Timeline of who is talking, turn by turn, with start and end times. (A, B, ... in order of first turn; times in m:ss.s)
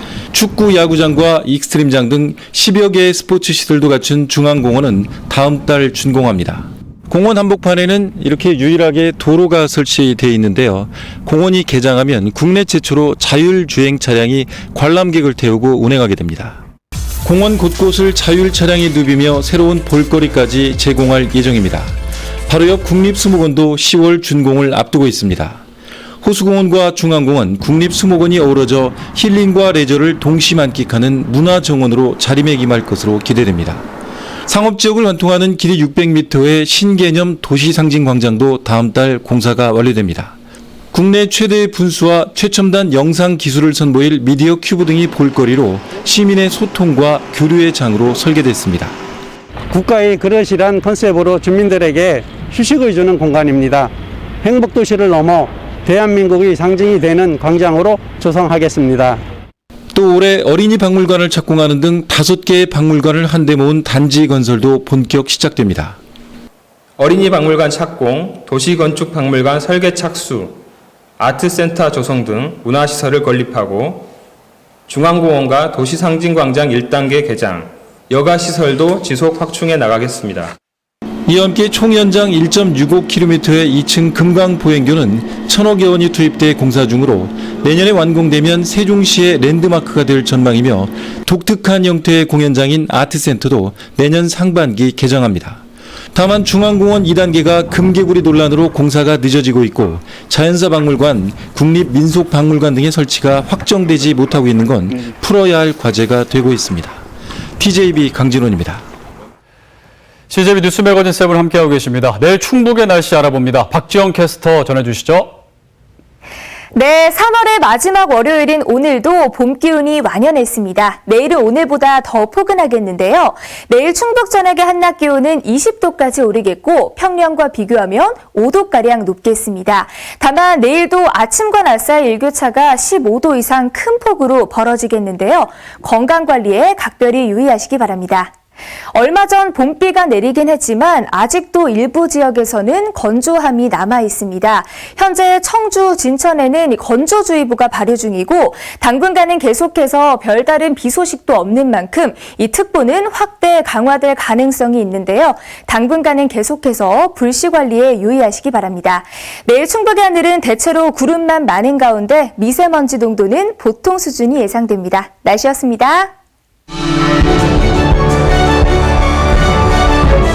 0:00.3-0:16.6 A
0:17.2-0:25.6 A
0:26.2-0:33.9 A
0:34.5-0:40.4 A
0:40.9-0:49.0 A
0:49.7-0:59.2 B
0:59.9-1:06.0 A
1:07.0-1:10.6 C
1:11.2-1:14.1 C
1:14.9-1:20.5 C
1:21.2-1:47.0 A
1:47.6-1:48.8 A
1:50.3-1:55.4 D
1:56.7-2:18.3 E
2:18.9-2:46.1 E